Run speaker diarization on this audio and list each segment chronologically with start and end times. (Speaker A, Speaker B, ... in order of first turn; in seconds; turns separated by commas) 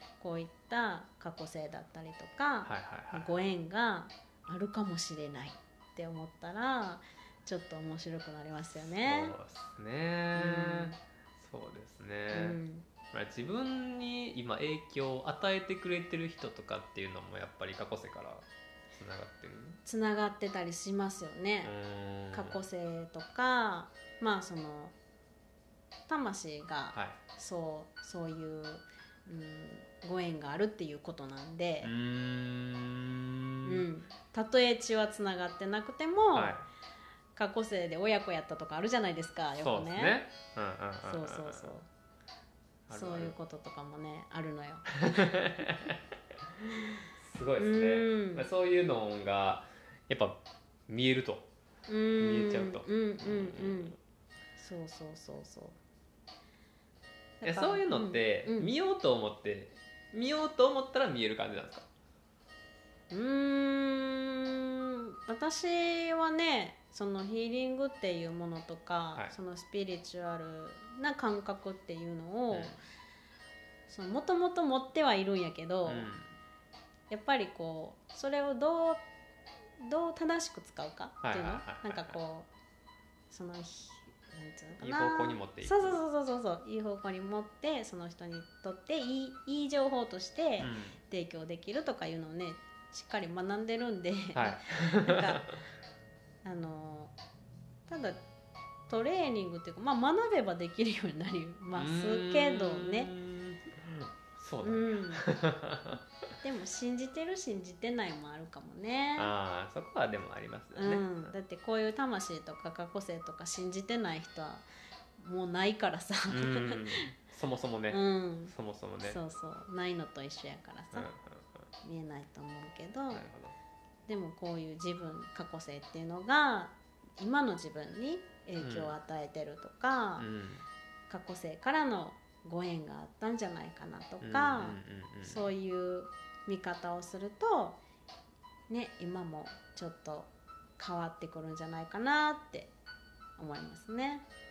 Speaker A: 0.2-9.3, Speaker B: 2.6-3.3, Speaker B: 8.8-19.8, Speaker A: 10.3-11.0, Speaker A: 12.3-12.9, Speaker A: 19.9-21.7, Speaker B: 21.6-22.6, Speaker A: 22.3-24.9, Speaker A: 26.1-31.9, Speaker B: 26.9-27.2, Speaker B: 31.8-33.9, Speaker A: 33.6-36.6, Speaker B: 36.3-36.6, Speaker A: 37.3-40.2, Speaker B: 39.5-41.7, Speaker A: 41.0-41.9, Speaker B: 42.9-43.4, Speaker A: 42.9-45.3, Speaker B: 44.9-46.0, Speaker B: 46.6-51.5, Speaker A: 47.6-48.5, Speaker A: 51.9-54.0, Speaker B: 52.2-54.0, Speaker A: 54.5-55.8, Speaker A: 57.4-58.7, Speaker B: 57.4-61.9, Speaker A: 63.1-72.8, Speaker B: 72.5-72.8, Speaker A: 73.9-76.1, Speaker B: 75.8-76.4, Speaker A: 77.1-79.0, Speaker A: 79.8-82.5, Speaker B: 81.2-82.2, Speaker A: 83.3-95.5, Speaker B: 84.8-86.0, Speaker B: 90.6-91.0, Speaker B: 94.3-95.5, Speaker A: 96.4-97.1, Speaker A: 97.9-98.2, Speaker A: 98.9-103.1, Speaker B: 101.7-106.0, Speaker A: 104.6-105.2, Speaker A: 106.4-109.3, Speaker B: 109.2-111.3, Speaker A: 110.8-114.7, Speaker A: 115.2-117.1, Speaker B: 116.3-119.2, Speaker A: 117.9-121.1, Speaker B: 120.9-121.7, Speaker A: 121.8-123.2, Speaker B: 123.1-123.5, Speaker A: 124.1-130.3, Speaker B: 128.6-129.0, Speaker B: 130.2-130.7, Speaker A: 131.1-137.8, Speaker B: 134.2-135.5, Speaker A: 138.7-142.7, Speaker A: 143.4-144.2